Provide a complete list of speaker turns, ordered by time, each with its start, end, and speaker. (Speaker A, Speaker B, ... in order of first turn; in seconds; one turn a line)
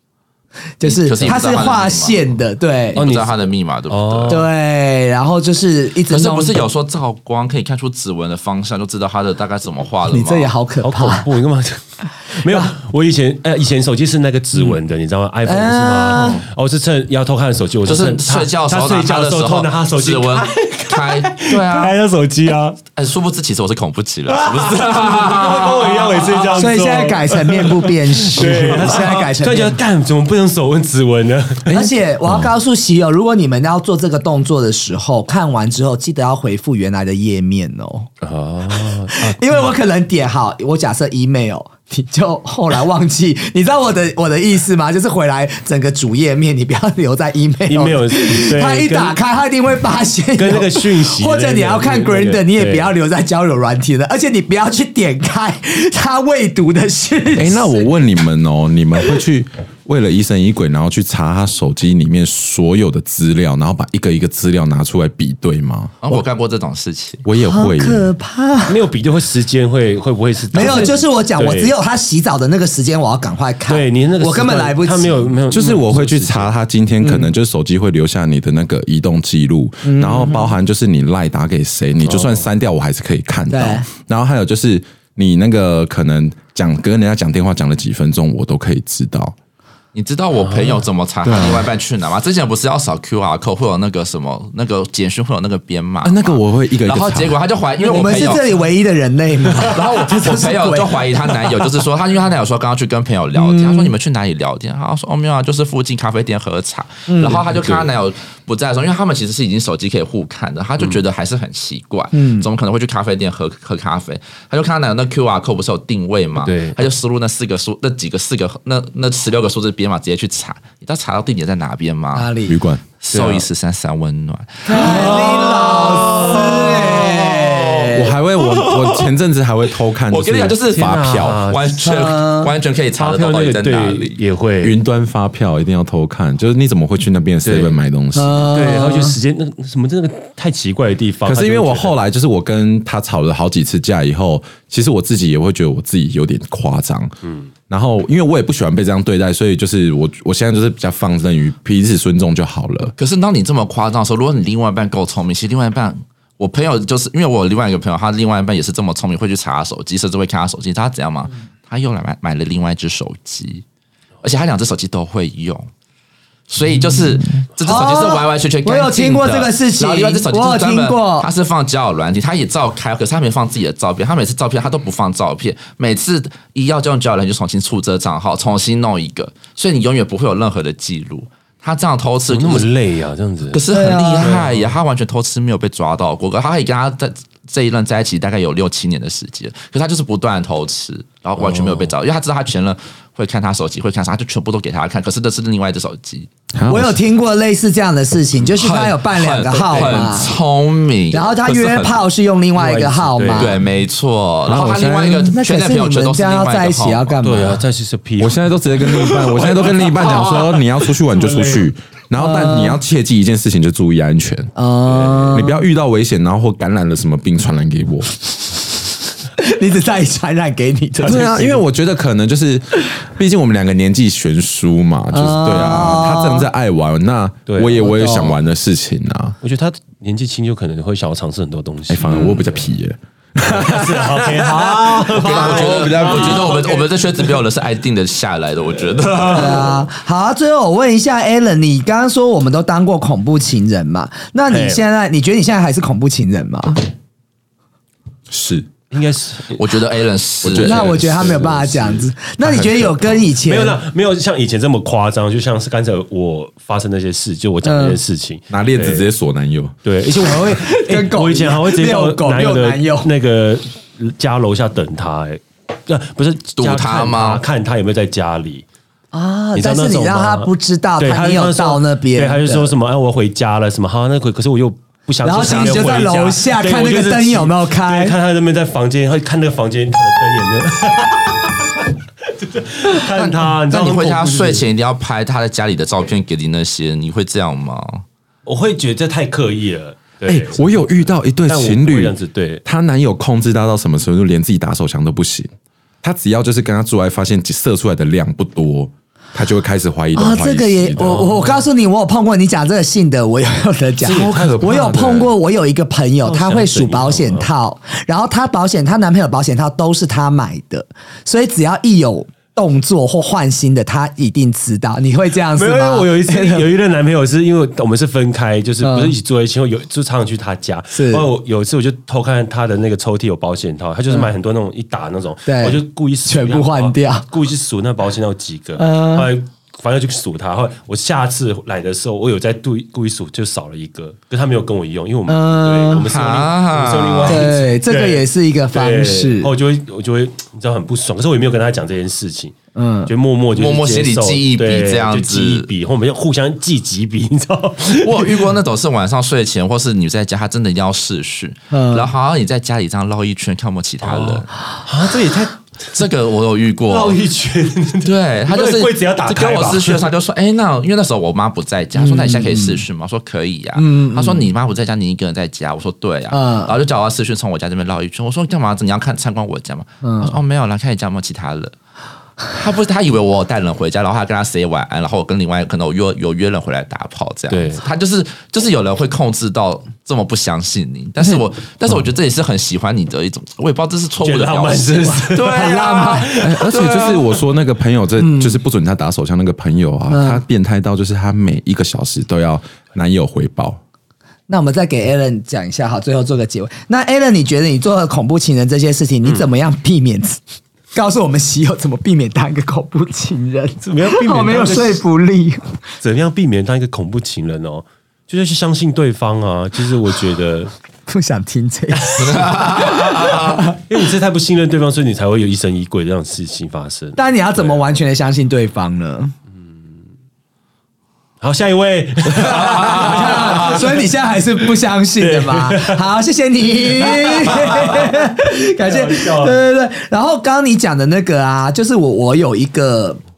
Speaker A: 0.8-3.0
Speaker B: 0.8-2.3
Speaker B: 2.9-4.5
Speaker C: 3.0-4.5
Speaker A: 4.3-6.7
Speaker B: 6.1-10.5
Speaker A: 10.1-11.3
Speaker C: 10.8-22.8
Speaker A: 12.5-12.7
Speaker B: 14.5-14.8
Speaker A: 15.5-16.4
Speaker B: 16.1-16.4
Speaker B: 17.9-21.9
Speaker B: 23.0-26.6
Speaker C: 24.3-31.7
Speaker A: 26.6-29.8
Speaker D: 31.6-32.5
Speaker A: 31.7-38.1
Speaker C: 38.2-39.7
Speaker A: 38.7-57.9
Speaker C: 47.7-49.1
Speaker C: 50.4-52.9
Speaker D: 57.4-66.0
Speaker B: 66.0-67.2
Speaker D: 67.2-68.1
Speaker A: 67.5-68.8
Speaker C: 68.7-71.7
Speaker A: 70.5-75.3
Speaker B: 70.6-70.9
Speaker C: 73.7-76.5
Speaker D: 75.5-89.3
Speaker C: 77.0-77.3
Speaker A: 79.8-80.6
Speaker C: 82.0-82.5
Speaker A: 83.5-83.9
Speaker B: 89.9-98.5
Speaker C: 90.4-90.8
Speaker D: 91.2-91.7
Speaker D: 96.0-97.4
Speaker A: 97.8-101.4
Speaker B: 99.6-122.3
Speaker A: 103.3-103.9
Speaker A: 107.1-107.4
Speaker C: 107.3-107.9
Speaker A: 112.1-112.5
Speaker C: 116.4-116.8
Speaker A: 122.1-122.6
Speaker D: 122.5-122.8
Speaker B: 123.0-129.1
Speaker C: 123.1-123.5
Speaker A: 124.7-128.0
Speaker C: 124.7-126.2
Speaker D: 128.0-131.5
Speaker B: 130.1-134.2
Speaker C: 130.7-131.9
Speaker A: 131.8-132.5
Speaker C: 132.9-134.8
Speaker D: 134.6-138.8
Speaker C: 137.4-137.8
Speaker A: 138.1-139.2
Speaker C: 138.5-141.9
Speaker D: 141.2-147.1
Speaker C: 147.2-147.5
Speaker D: 147.7-152.9
Speaker B: 153.0-163.6
Speaker B: 164.2-165.7
Speaker B: 166.5-182.7
Speaker A: 167.6-171.3
Speaker C: 182.3-183.6
Speaker B: 183.5-196.3
Speaker A: 183.7-184.4
Speaker C: 184.2-184.8
Speaker C: 191.4-191.9
Speaker D: 196.5-197.0
Speaker A: 196.7-200.4
Speaker B: 198.4-202.0
Speaker A: 201.1-203.6
Speaker C: 202.5-203.7
Speaker B: 203.3-207.2
Speaker D: 204.5-205.3
Speaker A: 205.3-207.6
Speaker C: 207.2-211.7
Speaker D: 208.2-214.5
Speaker A: 212.2-212.8
Speaker A: 214.5-215.6
Speaker C: 214.9-215.3
Speaker D: 215.3-218.1
Speaker A: 219.4-221.6
Speaker D: 221.0-229.4
Speaker A: 225.1-226.5
Speaker C: 227.5-228.0
Speaker A: 227.8-228.3
Speaker C: 229.4-232.6
Speaker D: 231.9-236.8
Speaker A: 232.1-232.4
Speaker C: 233.4-236.9
Speaker B: 235.1-239.8
Speaker C: 239.2-239.8
Speaker A: 239.3-246.8
Speaker C: 244.5-244.8
Speaker D: 248.3-248.7
Speaker C: 248.9-249.8
Speaker B: 249.5-250.8
Speaker D: 250.4-253.2
Speaker A: 250.6-253.8
Speaker C: 250.7-251.0
Speaker C: 253.4-259.0
Speaker A: 257.6-258.0
Speaker D: 258.5-259.8
Speaker C: 259.9-268.6
Speaker A: 260.2-263.1
Speaker B: 266.6-267.4
Speaker A: 269.1-272.7
Speaker C: 269.5-284.6
Speaker A: 275.2-278.1
Speaker B: 275.3-276.0
Speaker B: 283.1-288.0
Speaker C: 288.4-292.6
Speaker D: 290.3-295.5
Speaker D: 296.0-301.2
Speaker A: 300.1-316.7
Speaker C: 301.0-301.7
Speaker C: 304.0-305.3
Speaker D: 304.0-305.3
Speaker C: 306.2-307.5
Speaker C: 315.5-342.6
Speaker A: 318.8-319.1
Speaker A: 320.9-321.3
Speaker A: 325.4-327.3
Speaker A: 328.8-329.3
Speaker A: 335.3-336.1
Speaker B: 336.0-337.5
Speaker A: 337.2-339.5
Speaker A: 342.8-343.1
Speaker C: 343.1-348.5
Speaker B: 343.5-345.7
Speaker B: 347.9-354.5
Speaker A: 351.7-352.1
Speaker C: 354.0-355.6
Speaker B: 355.9-357.2
Speaker C: 356.9-360.1
Speaker B: 358.0-371.7
Speaker A: 362.0-362.8
Speaker A: 363.8-364.5
Speaker A: 366.3-366.7
Speaker A: 370.0-370.4
Speaker B: 372.5-387.2
Speaker C: 377.5-377.8
Speaker C: 384.2-386.9
Speaker A: 385.5-386.3
Speaker D: 386.4-393.8
Speaker A: 388.2-388.6
Speaker A: 390.1-390.4
Speaker A: 394.5-400.4
Speaker C: 399.2-399.5
Speaker A: 400.9-405.8
Speaker C: 403.8-405.0
Speaker C: 406.0-410.7
Speaker A: 411.1-413.8
Speaker B: 412.5-413.3
Speaker C: 413.5-417.2
Speaker A: 417.2-419.3
Speaker C: 421.4-424.1
Speaker A: 422.3-433.2
Speaker C: 425.2-426.0
Speaker C: 427.0-428.3
Speaker C: 428.8-429.6